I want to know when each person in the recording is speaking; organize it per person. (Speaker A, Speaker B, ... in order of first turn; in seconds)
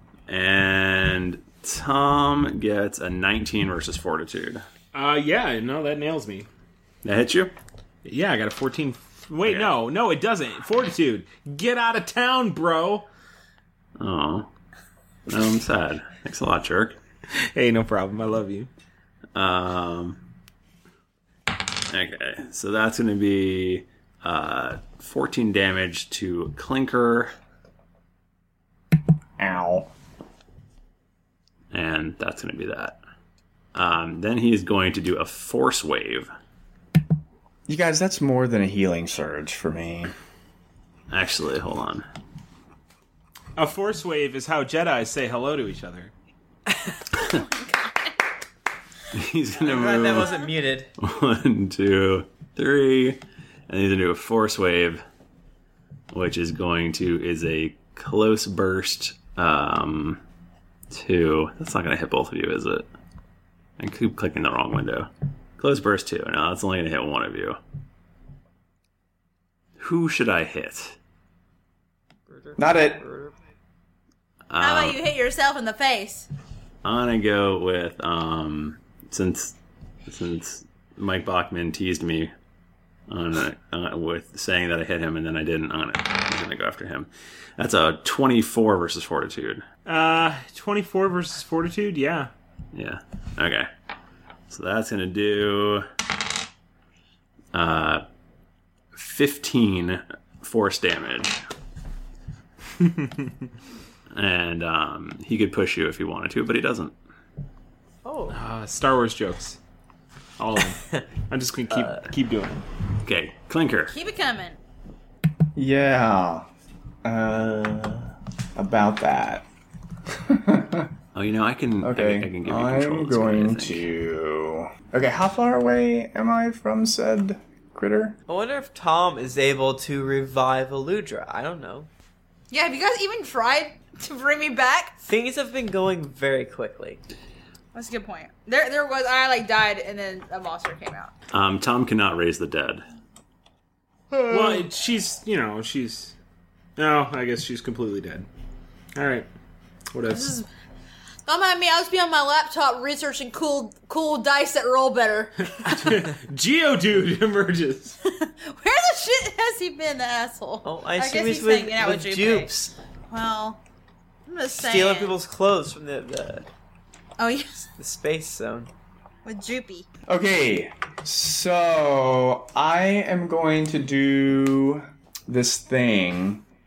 Speaker A: 0.3-4.7, 7.0-7.5, 9.4-9.7, 14.0-14.5, 15.3-17.0, 19.4-20.2, 21.9-27.3, 31.7-33.0, 33.7-36.3, 41.1-42.0, 49.1-50.4, 51.0-55.0, 56.1-60.2, 60.9-62.9, 63.8-67.6, 69.8-71.0, 74.5-75.0, 76.8-79.5, 80.1-82.3, 83.1-89.7, 92.7-93.7, 94.5-95.9, 97.5-98.0, 98.9-101.4, 104.1-106.9, 113.0-114.0, 121.2-123.9, 141.3-142.8
Speaker B: 4.9-6.5, 8.1-13.1, 17.4-18.7, 43.6-46.1, 89.9-92.3, 102.8-103.3, 108.3-109.6, 110.4-112.6, 144.3-146.2, 146.8-148.3, 148.9-149.3, 149.9-150.3, 155.6-158.0
Speaker C: 29.4-29.9, 37.7-40.1, 72.6-73.0, 115.6-116.5, 117.0-119.5, 120.1-120.9, 121.8-128.2, 170.1-176.4
Speaker D: 47.2-48.1, 74.6-76.3, 113.9-114.6, 132.5-135.0, 137.7-141.1, 150.1-150.4, 151.3-156.0, 158.1-162.5, 163.1-163.6, 164.3-165.2, 167.2-167.7, 169.2-169.9
Speaker E: 49.6-50.9, 72.3-73.3, 108.0-108.4, 111.8-112.0, 128.3-131.9, 135.0-137.0, 160.6-162.7, 164.5-166.5, 167.8-168.7